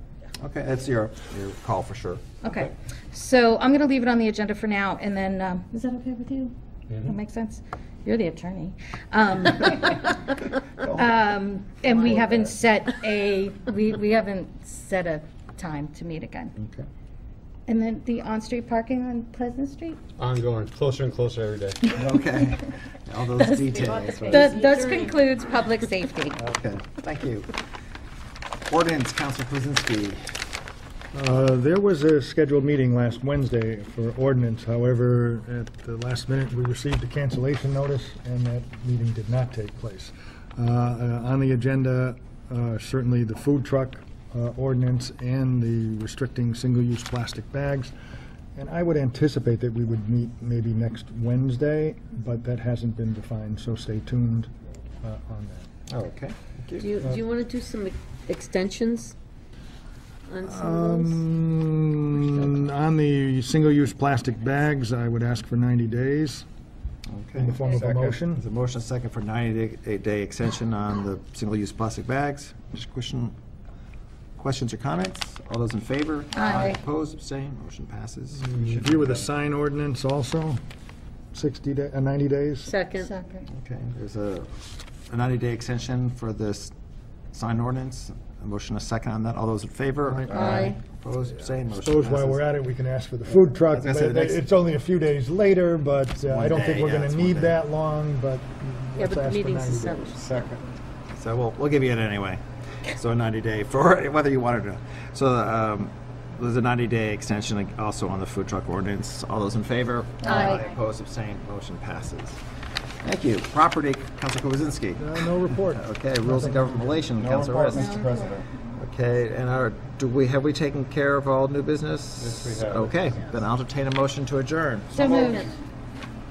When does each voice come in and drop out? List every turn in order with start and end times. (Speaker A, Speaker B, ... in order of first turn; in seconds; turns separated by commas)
Speaker A: 0.4-2.3, Speaker B: 2.4-10.4, Speaker B: 10.9-16.5, Speaker A: 16.6-16.9, Speaker B: 17.7-20.0, Speaker C: 20.2-21.8, Speaker A: 21.9-24.5, Speaker B: 21.9-22.6, Speaker B: 23.4-26.4, Speaker D: 23.7-25.1, Speaker A: 26.4-27.5, Speaker A: 28.7-30.2, Speaker E: 31.1-47.9, Speaker E: 48.5-54.5, Speaker E: 55.0-55.7, Speaker A: 55.9-56.9, Speaker D: 56.8-59.1, Speaker D: 60.3-61.2, Speaker E: 60.4-66.4, Speaker A: 67.1-73.3, Speaker E: 67.3-68.4, Speaker A: 74.4-79.2, Speaker B: 76.3-76.8, Speaker E: 78.4-80.6, Speaker E: 81.3-82.7, Speaker D: 82.6-83.1, Speaker B: 83.0-83.5, Speaker A: 83.5-84.5, Speaker A: 85.1-86.7, Speaker A: 87.3-92.5, Speaker E: 90.0-90.8, Speaker D: 90.3-90.8, Speaker E: 91.7-100.5, Speaker A: 93.7-94.4, Speaker A: 96.2-97.6, Speaker D: 99.0-100.2, Speaker A: 101.1-112.4, Speaker B: 110.2-110.7, Speaker A: 113.0-115.1, Speaker E: 115.0-117.3, Speaker A: 115.6-118.0, Speaker C: 117.2-118.4, Speaker D: 117.7-118.4, Speaker A: 118.7-125.5, Speaker C: 122.2-123.2, Speaker B: 124.9-125.6